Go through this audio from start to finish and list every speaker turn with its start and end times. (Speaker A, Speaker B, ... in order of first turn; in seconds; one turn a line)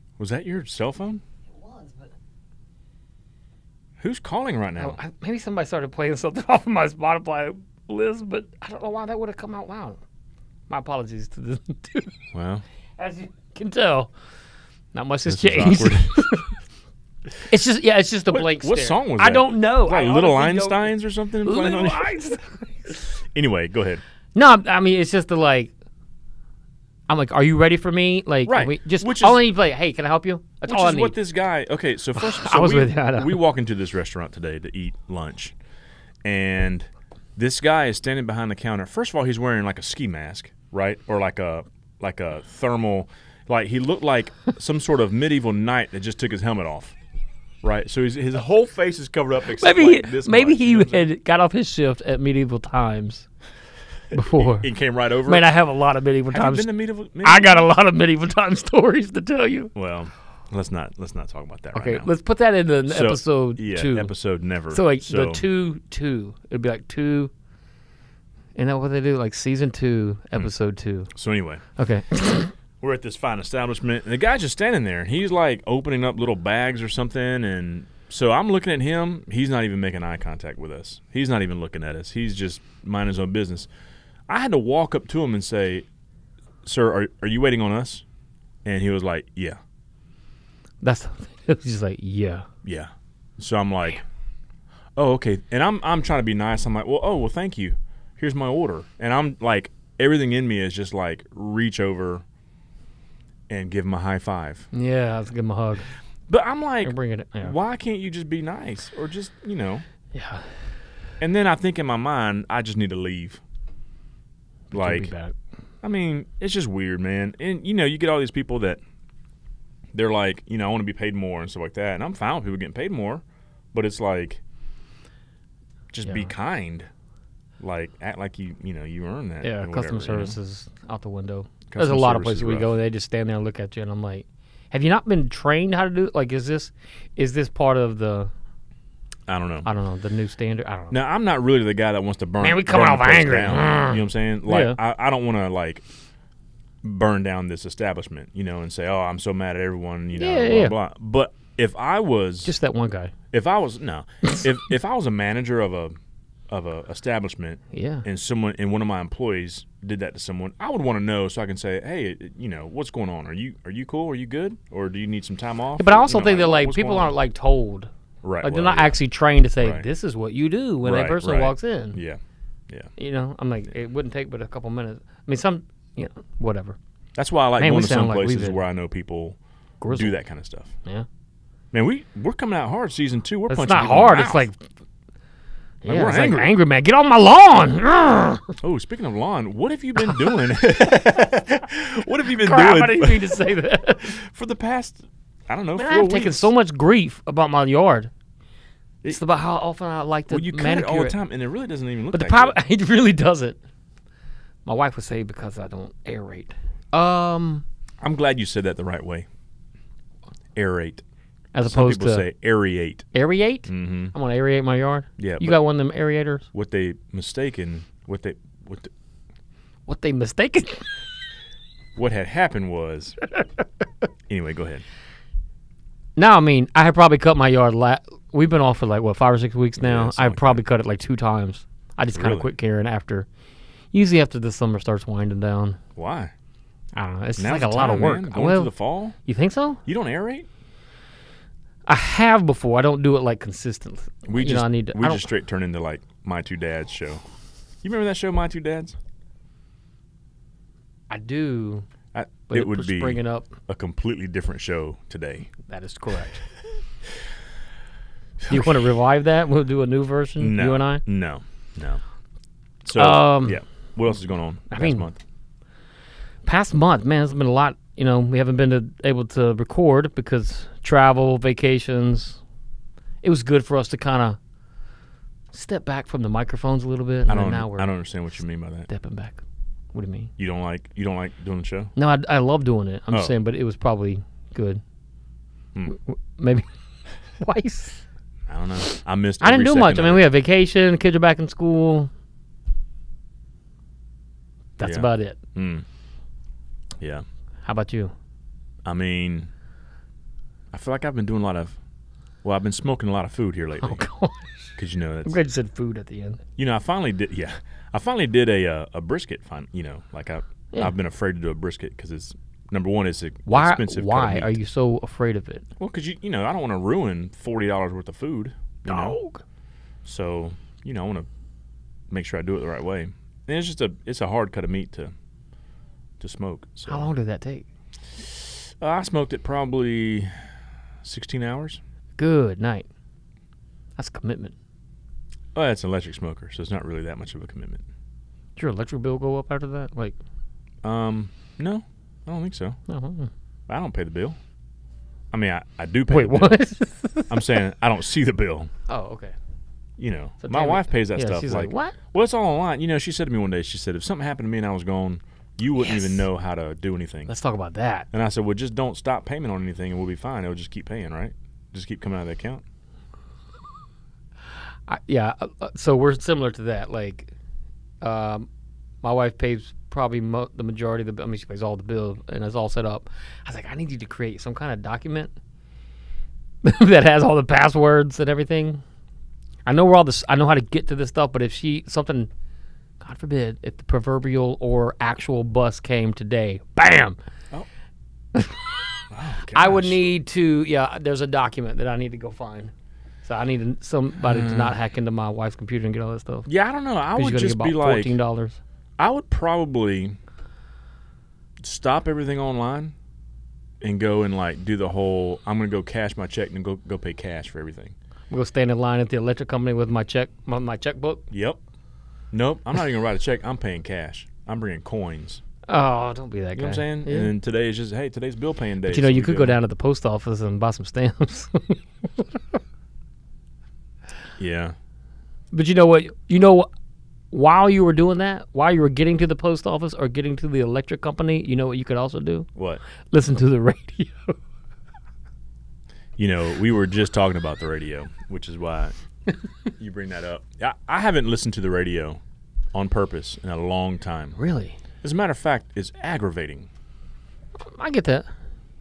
Speaker A: 0.2-1.2
Speaker B: 1.6-2.1
Speaker A: 4.0-5.0
Speaker B: 4.8-10.0
Speaker B: 10.7-12.1
Speaker A: 12.3-12.6
Speaker B: 13.0-14.1
Speaker B: 14.9-16.5
Speaker A: 15.2-16.2
Speaker B: 17.4-20.9
Speaker A: 18.3-22.2
Speaker B: 21.4-23.0
Speaker A: 23.3-24.0
Speaker B: 24.3-25.7
Speaker B: 27.1-31.1
Speaker A: 28.4-29.4
Speaker A: 30.7-35.5
Speaker B: 32.1-33.4
Speaker A: 36.2-47.0
Speaker A: 47.6-51.1
Speaker B: 49.6-53.3
Speaker B: 54.1-54.7
Speaker A: 54.1-55.5
Speaker B: 55.2-56.7
Speaker A: 56.3-57.7
Speaker B: 57.2-59.7
Speaker A: 59.7-62.1
Speaker B: 61.7-64.1
Speaker A: 62.9-65.5
Speaker B: 64.7-67.3
Speaker B: 68.5-71.1
Speaker A: 71.1-71.6
Speaker B: 71.8-72.5
Speaker A: 72.8-83.7
Speaker A: 84.3-85.8
Speaker A: 86.6-88.0
Speaker A: 88.6-89.6
Speaker B: 90.8-92.5
Speaker A: 92.6-94.0
Speaker A: 95.0-102.2
Speaker A: 103.5-104.7
Speaker B: 104.7-105.9
Speaker A: 106.3-109.8
Speaker B: 106.8-107.5
Speaker B: 110.1-110.6
Speaker A: 111.2-113.4
Speaker A: 114.7-115.1
Speaker B: 114.7-115.3
Speaker A: 115.8-118.8
Speaker A: 119.9-123.2
Speaker A: 123.7-124.4
Speaker A: 125.9-126.9
Speaker B: 126.0-126.3
Speaker A: 127.6-130.4
Speaker B: 129.4-138.3
Speaker A: 131.7-132.7
Speaker A: 139.3-139.7
Speaker B: 139.6-140.9
Speaker A: 140.9-145.8
Speaker B: 142.4-144.8
Speaker A: 146.8-152.6
Speaker B: 150.1-150.7
Speaker B: 152.4-153.1
Speaker A: 153.3-155.9
Speaker A: 156.5-167.2
Speaker B: 157.7-158.0
Speaker B: 165.8-167.9
Speaker A: 168.2-169.0
Speaker B: 168.4-172.0
Speaker A: 169.6-169.9
Speaker A: 170.8-172.9
Speaker B: 173.0-176.8
Speaker A: 177.1-179.4
Speaker B: 177.6-178.6
Speaker B: 179.8-180.1
Speaker A: 179.9-180.7
Speaker A: 181.7-184.5
Speaker B: 183.5-184.6
Speaker B: 185.8-188.5
Speaker A: 185.8-186.5
Speaker A: 188.6-193.4
Speaker B: 190.0-190.3
Speaker B: 192.4-194.1
Speaker A: 194.0-196.5
Speaker B: 195.8-198.1
Speaker B: 199.1-201.2
Speaker A: 200.3-202.6
Speaker B: 202.1-203.6
Speaker B: 204.7-207.6
Speaker A: 208.0-209.3
Speaker A: 210.5-211.0
Speaker B: 211.5-212.3
Speaker A: 211.7-213.1
Speaker B: 213.1-216.5
Speaker A: 213.7-214.1
Speaker A: 215.2-215.6
Speaker A: 216.5-218.9
Speaker B: 219.9-220.9
Speaker A: 221.9-223.2
Speaker A: 224.3-224.8
Speaker B: 226.2-233.3
Speaker A: 229.8-230.6
Speaker A: 232.1-232.5
Speaker B: 233.9-235.8
Speaker A: 235.9-236.3
Speaker B: 236.9-238.7
Speaker A: 237.4-239.2
Speaker B: 239.2-239.8
Speaker A: 239.8-240.5
Speaker B: 241.9-245.3
Speaker A: 244.2-247.2
Speaker A: 247.8-248.9
Speaker B: 251.1-251.8
Speaker A: 252.1-255.5
Speaker B: 252.5-253.5
Speaker B: 255.7-256.4
Speaker A: 258.4-258.9
Speaker B: 258.5-261.0
Speaker A: 260.4-262.0
Speaker A: 262.8-265.2
Speaker B: 262.9-263.6
Speaker B: 264.7-265.1
Speaker B: 266.4-272.4
Speaker B: 273.2-274.4
Speaker B: 275.5-277.9
Speaker A: 277.3-278.9
Speaker B: 278.9-279.4
Speaker B: 279.9-280.3
Speaker A: 280.4-281.9
Speaker B: 281.9-284.8
Speaker B: 285.9-286.7
Speaker B: 287.4-288.0
Speaker A: 288.5-290.2
Speaker B: 289.4-292.1
Speaker B: 294.8-295.4
Speaker A: 294.8-295.9
Speaker A: 297.0-297.2
Speaker B: 297.6-298.1
Speaker A: 298.8-299.5
Speaker A: 300.7-301.8
Speaker A: 302.4-304.1
Speaker B: 303.8-304.7
Speaker A: 304.8-305.4
Speaker B: 305.2-306.4
Speaker A: 306.6-314.6
Speaker B: 313.5-315.6
Speaker A: 315.8-319.2
Speaker B: 318.9-319.4
Speaker A: 320.0-321.2
Speaker A: 322.1-325.1
Speaker A: 326.2-327.1
Speaker B: 326.9-327.6
Speaker A: 328.2-330.5
Speaker A: 331.0-331.8
Speaker B: 332.2-332.9
Speaker B: 334.0-334.5
Speaker A: 335.5-337.8
Speaker B: 338.6-340.1
Speaker A: 340.8-342.8
Speaker B: 342.9-343.3
Speaker A: 343.7-344.4
Speaker A: 345.3-346.6
Speaker B: 346.1-347.4
Speaker A: 347.3-348.7
Speaker B: 348.9-349.3
Speaker A: 350.0-357.3
Speaker B: 350.4-352.0
Speaker B: 355.8-356.2
Speaker B: 357.3-358.1
Speaker A: 358.1-362.6
Speaker B: 364.9-367.3
Speaker B: 368.0-368.5
Speaker B: 369.0-375.3
Speaker B: 376.6-378.8
Speaker B: 379.6-382.3
Speaker B: 383.0-387.2
Speaker B: 388.3-388.8
Speaker A: 389.1-390.0
Speaker B: 389.5-392.7
Speaker B: 393.2-396.5
Speaker A: 394.2-394.7
Speaker A: 396.4-398.1
Speaker B: 397.1-398.6
Speaker A: 399.0-400.2
Speaker A: 401.6-402.9
Speaker A: 403.8-407.9
Speaker B: 408.3-411.2
Speaker A: 411.3-411.6
Speaker A: 412.3-415.4
Speaker B: 415.7-417.3
Speaker A: 416.5-419.6
Speaker B: 418.9-422.6
Speaker A: 424.4-424.8
Speaker B: 425.5-426.7
Speaker B: 427.3-432.5
Speaker A: 432.5-432.8
Speaker B: 433.1-434.4
Speaker A: 436.2-438.9
Speaker A: 439.8-442.2
Speaker A: 442.7-444.4
Speaker B: 444.4-444.8
Speaker A: 445.0-446.7
Speaker B: 447.7-448.3